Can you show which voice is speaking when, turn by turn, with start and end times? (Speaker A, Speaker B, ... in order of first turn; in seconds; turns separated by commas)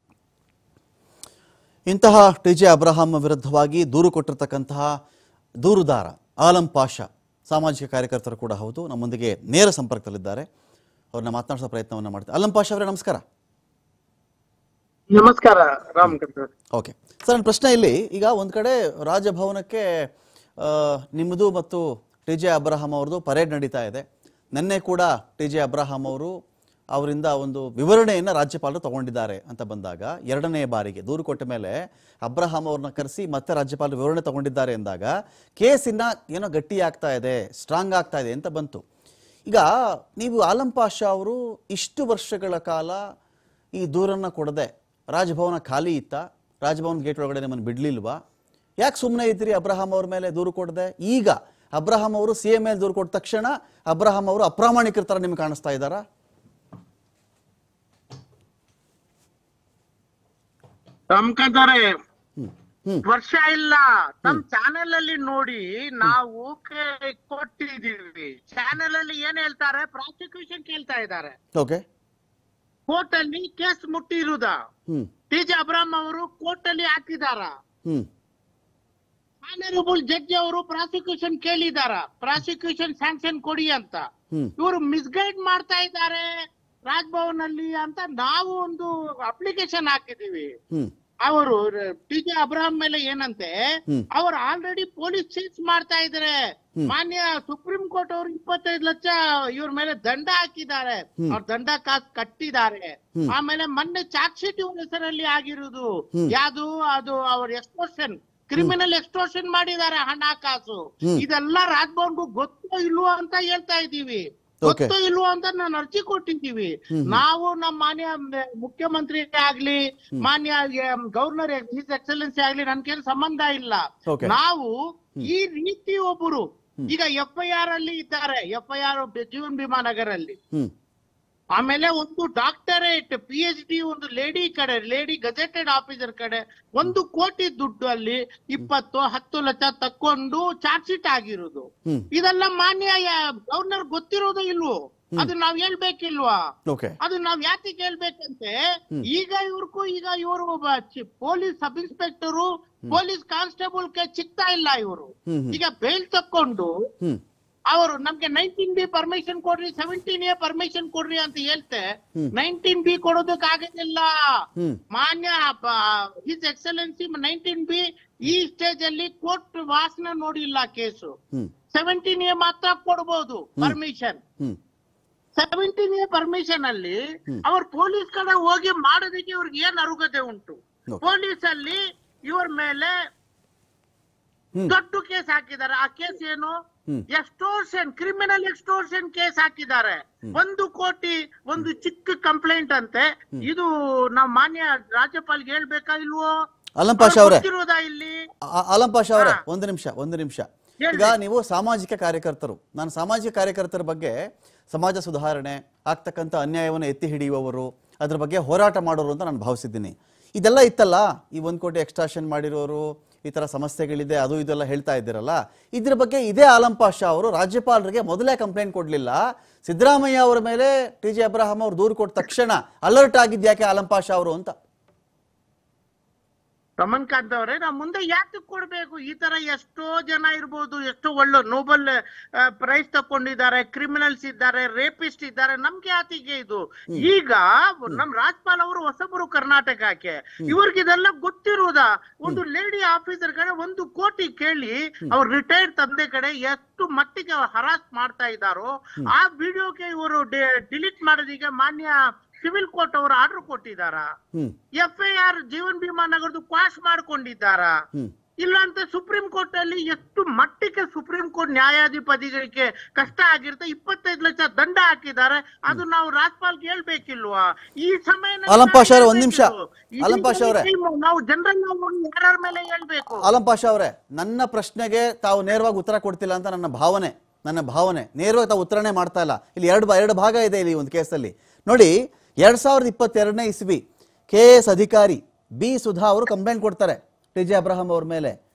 Speaker A: 1.9-5.0, Speaker A: 5.6-10.5, Speaker A: 11.1-13.2, Speaker B: 15.1-16.5, Speaker A: 16.8-19.8, Speaker A: 20.6-26.3, Speaker A: 26.9-38.8, Speaker A: 39.5-43.0, Speaker A: 43.8-48.2, Speaker A: 48.8-56.0, Speaker B: 61.1-61.9, Speaker A: 62.4-63.0, Speaker B: 63.1-71.3, Speaker A: 71.6-71.8, Speaker B: 72.9-74.6, Speaker B: 75.3-77.5, Speaker B: 79.4-84.1, Speaker B: 84.6-86.3, Speaker B: 86.9-90.5, Speaker B: 91.2-96.3, Speaker B: 96.9-130.4, Speaker A: 114.6-114.9, Speaker A: 116.9-117.2, Speaker A: 124.1-124.3, Speaker B: 131.5-146.5, Speaker A: 146.7-146.9, Speaker B: 147.0-156.8, Speaker A: 155.3-155.6, Speaker B: 157.7-164.1, Speaker B: 164.9-171.1, Speaker B: 171.7-174.2, Speaker B: 175.3-182.9, Speaker B: 184.7-186.5, Speaker B: 187.1-196.3, Speaker A: 196.8-197.4, Speaker B: 197.0-198.2, Speaker A: 198.5-204.2, Speaker B: 200.8-201.1, Speaker A: 204.7-224.5, Speaker B: 226.8-254.1, Speaker B: 254.8-257.8, Speaker B: 258.4-273.2, Speaker A: 268.5-270.7, Speaker A: 273.1-288.4